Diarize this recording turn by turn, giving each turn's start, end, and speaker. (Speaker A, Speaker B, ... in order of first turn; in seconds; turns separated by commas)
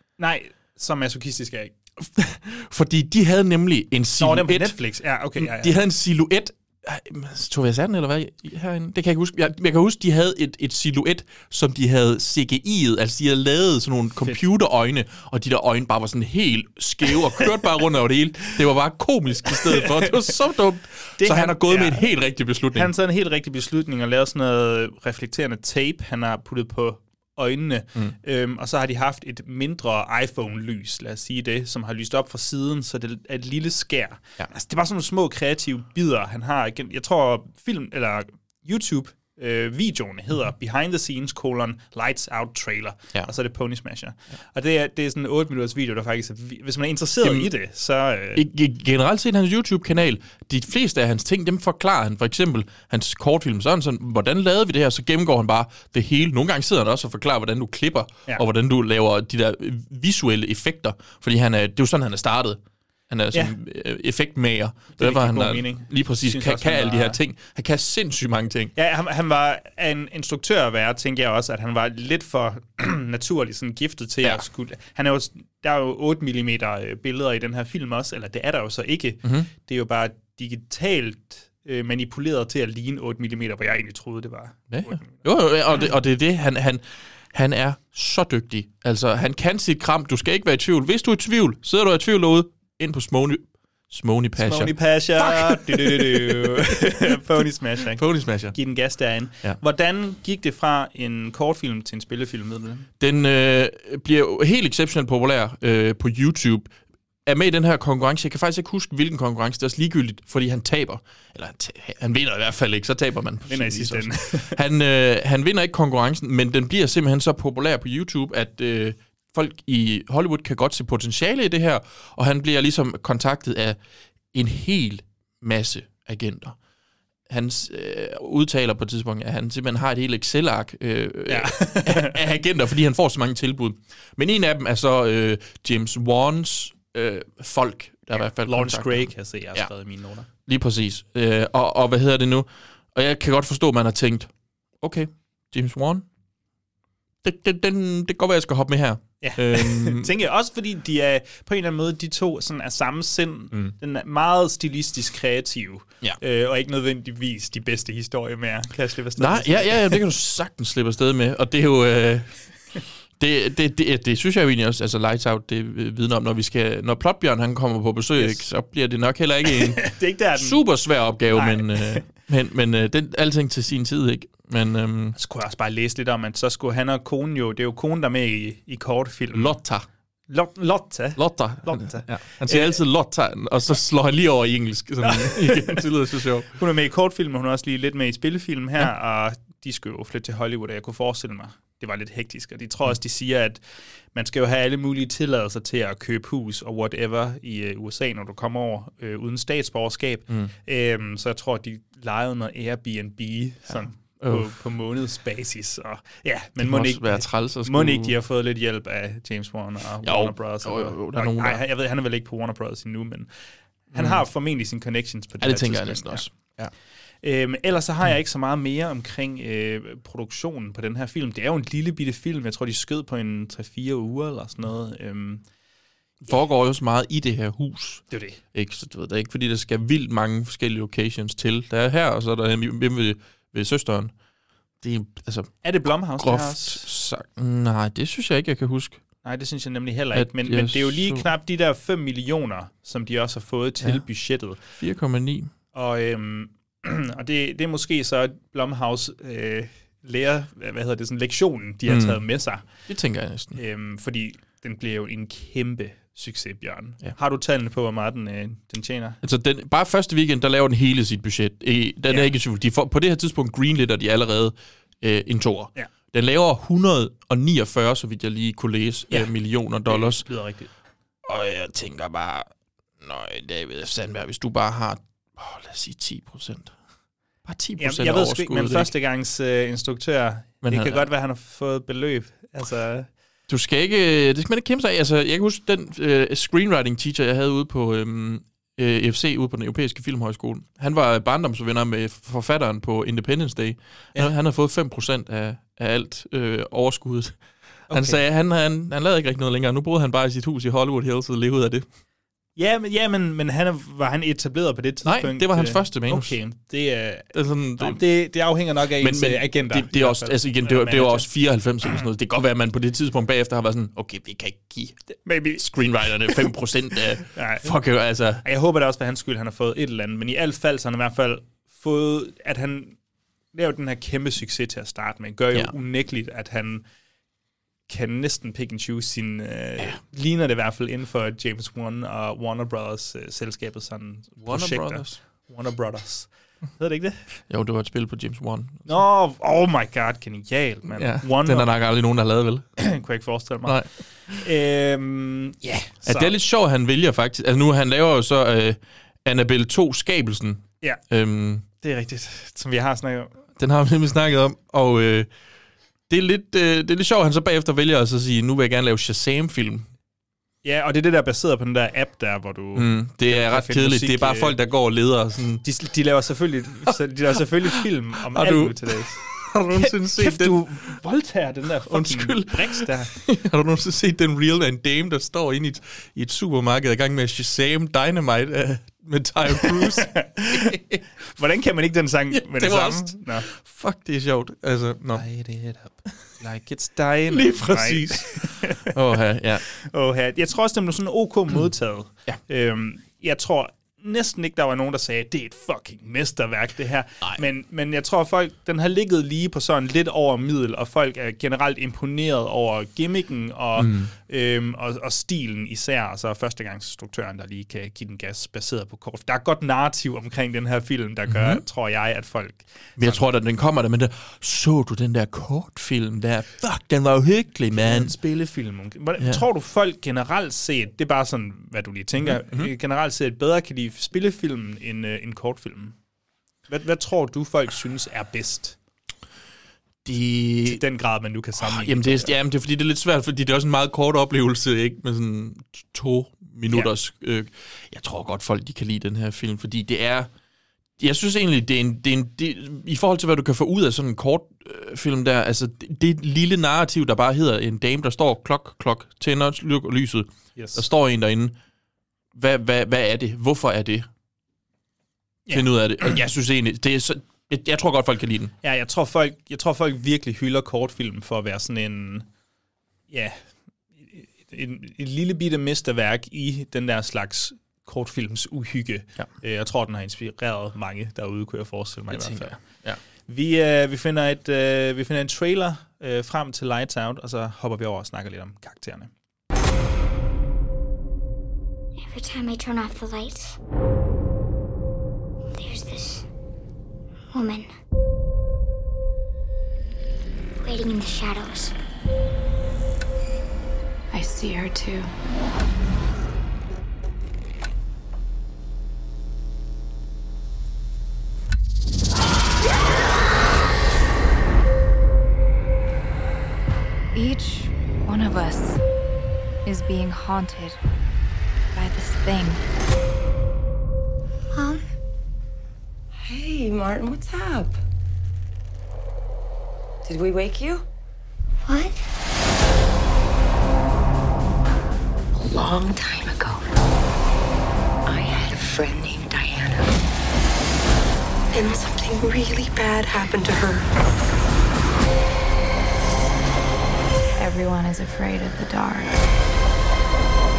Speaker A: 0.2-1.7, Speaker B: 2.0-4.8, Speaker A: 4.2-5.8, Speaker B: 5.4-22.9, Speaker A: 19.4-20.3, Speaker A: 21.2-22.1, Speaker A: 22.7-48.4, Speaker B: 47.2-47.5, Speaker B: 48.3-68.7, Speaker A: 65.0-67.2, Speaker A: 68.8-85.3, Speaker B: 79.2-79.5, Speaker B: 84.7-97.1, Speaker A: 94.4-102.9, Speaker B: 97.9-98.6, Speaker B: 103.0-106.7, Speaker B: 107.3-123.8, Speaker A: 113.5-114.6, Speaker B: 124.3-126.6, Speaker B: 127.3-139.7, Speaker A: 131.3-132.2, Speaker A: 138.1-140.3, Speaker B: 140.4-146.1, Speaker B: 147.2-150.1, Speaker A: 149.2-160.0, Speaker B: 159.2-175.2, Speaker A: 168.2-168.4, Speaker A: 169.8-170.7, Speaker A: 171.3-172.1, Speaker A: 175.2-179.6, Speaker B: 179.3-179.9, Speaker A: 180.3-182.8, Speaker B: 181.2-186.5, Speaker A: 185.0-185.9, Speaker A: 186.5-213.3, Speaker B: 203.7-204.5, Speaker B: 206.6-208.2, Speaker B: 210.0-211.6, Speaker B: 213.9-214.2, Speaker A: 213.9-216.5, Speaker B: 215.4-216.7, Speaker A: 217.2-225.4, Speaker B: 226.2-234.1, Speaker A: 228.1-228.4, Speaker B: 234.8-239.0, Speaker A: 235.6-236.9, Speaker A: 239.2-244.6, Speaker B: 240.1-241.3, Speaker B: 244.7-245.5, Speaker A: 245.7-252.7, Speaker B: 251.9-253.6, Speaker A: 253.6-259.2, Speaker B: 259.2-270.3, Speaker A: 269.9-270.7, Speaker B: 271.3-272.5, Speaker B: 273.0-276.8, Speaker B: 277.4-278.9, Speaker A: 277.8-283.1, Speaker B: 280.6-281.1, Speaker B: 283.5-301.9, Speaker A: 297.9-298.2, Speaker A: 302.6-311.3, Speaker B: 305.0-306.4, Speaker B: 307.3-308.0, Speaker B: 309.0-315.0, Speaker A: 315.2-315.6, Speaker B: 315.6-318.4, Speaker A: 317.3-317.7, Speaker A: 318.4-323.0, Speaker A: 323.5-326.8, Speaker A: 327.9-337.2, Speaker B: 334.4-335.2, Speaker B: 337.5-339.0, Speaker A: 338.9-341.7, Speaker B: 340.9-342.6, Speaker A: 342.8-346.4, Speaker B: 343.7-344.4, Speaker B: 346.1-351.6, Speaker A: 351.8-353.4, Speaker B: 353.6-355.3, Speaker B: 356.1-359.9, Speaker A: 360.6-364.6, Speaker B: 362.8-365.6, Speaker A: 365.6-373.1, Speaker B: 368.3-370.7, Speaker B: 371.9-381.0, Speaker A: 379.5-380.8, Speaker A: 381.3-383.5, Speaker B: 382.3-385.3, Speaker A: 385.1-388.9, Speaker B: 387.3-389.6, Speaker A: 389.7-413.2, Speaker B: 403.8-404.1, Speaker B: 411.3-411.6, Speaker B: 413.0-418.1, Speaker A: 417.7-426.0, Speaker B: 422.2-422.7, Speaker A: 426.7-428.8, Speaker B: 430.1-430.8, Speaker A: 430.6-432.4, Speaker B: 431.6-440.3, Speaker B: 441.0-451.6, Speaker A: 450.6-450.8, Speaker B: 452.4-454.1, Speaker A: 455.5-456.2, Speaker B: 455.5-458.5, Speaker A: 458.6-462.3, Speaker A: 463.1-463.4, Speaker A: 464.0-472.7, Speaker B: 472.1-473.0, Speaker A: 473.3-479.1, Speaker C: 482.0-483.6, Speaker C: 485.6-486.2, Speaker C: 487.3-487.7, Speaker C: 490.6-491.7, Speaker D: 494.1-495.1, Speaker D: 507.1-508.8, Speaker D: 509.6-510.8, Speaker D: 511.7-512.6, Speaker E: 516.2-517.8, Speaker E: 520.0-520.9, Speaker E: 525.4-526.7, Speaker E: 528.1-529.9, Speaker E: 531.5-533.9, Speaker D: 537.4-539.2